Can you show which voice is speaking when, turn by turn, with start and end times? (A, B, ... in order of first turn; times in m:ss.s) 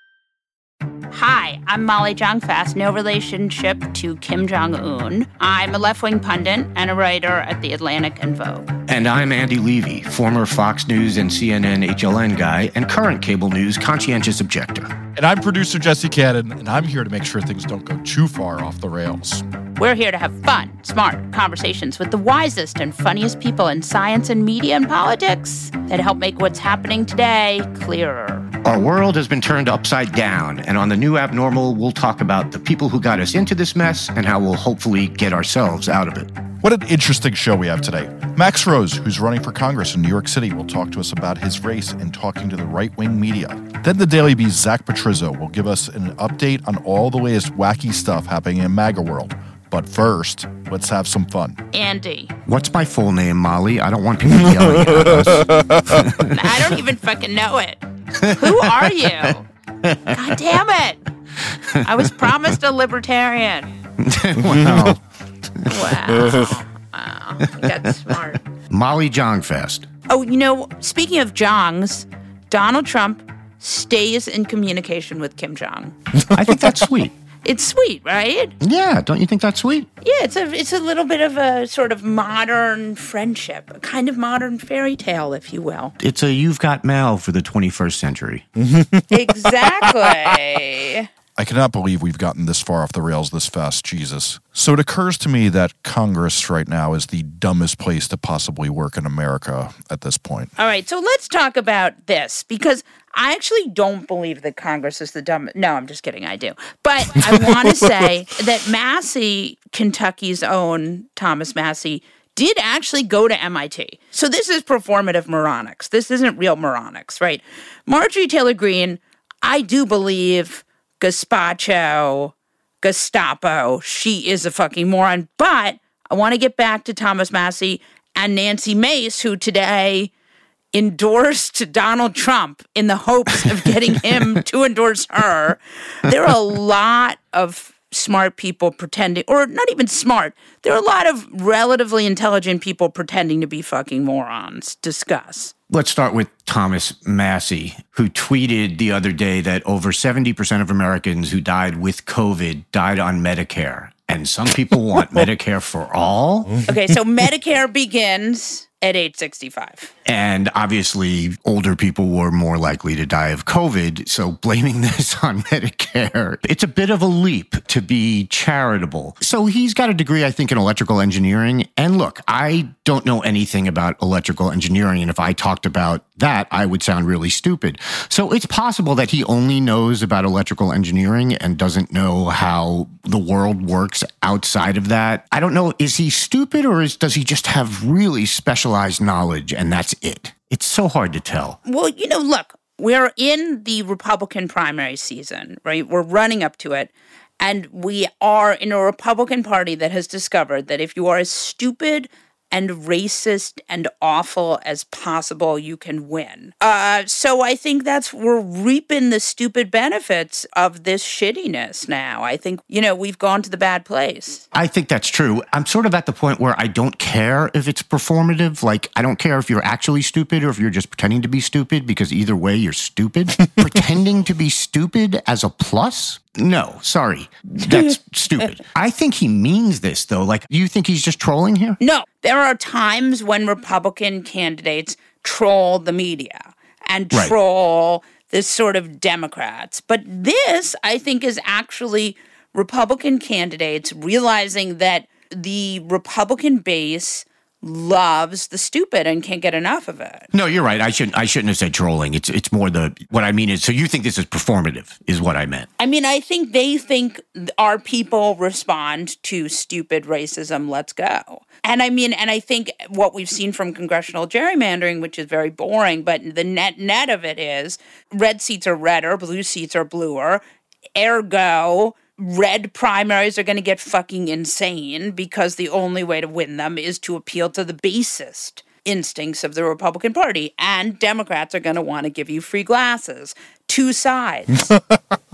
0:01.1-0:08.7 A
0:08.9-0:14.9 B
0:15.2-0:19.4 C
0:19.8-0:28.5 A
0:28.6-0:36.3 B
0:36.6-0:51.6 C
0:51.7-0:52.3 A
0:52.5-0:56.5 B
0:55.2-0:55.8 C
0:56.3-0:57.8 A
0:58.2-1:00.4 B
0:58.3-0:59.4 A
1:00.1-1:01.0 A
1:01.8-1:03.7 A
1:04.0-1:05.0 B
1:04.7-1:04.9 C
1:05.6-1:06.3 B
1:05.7-1:08.4 A
1:08.7-1:09.9 B
1:10.1-1:16.0 A
1:16.3-1:17.1 B
1:17.4-1:18.6 A
1:18.6-1:19.9 B
1:20.0-1:26.0 A
1:26.0-1:28.5 B
1:28.6-1:29.8 C
1:29.1-1:31.1 A
1:31.4-1:40.5 C
1:40.6-2:10.1 A
2:10.7-2:25.5 A
2:25.7-2:36.6 B
2:36.7-2:39.9 A
2:40.0-3:11.6 B
3:11.7-3:34.4 A
3:34.5-3:51.8 B
3:51.8-4:10.3 A
4:10.3-4:15.7 B
4:15.8-4:30.4 A
4:31.0-4:44.6 A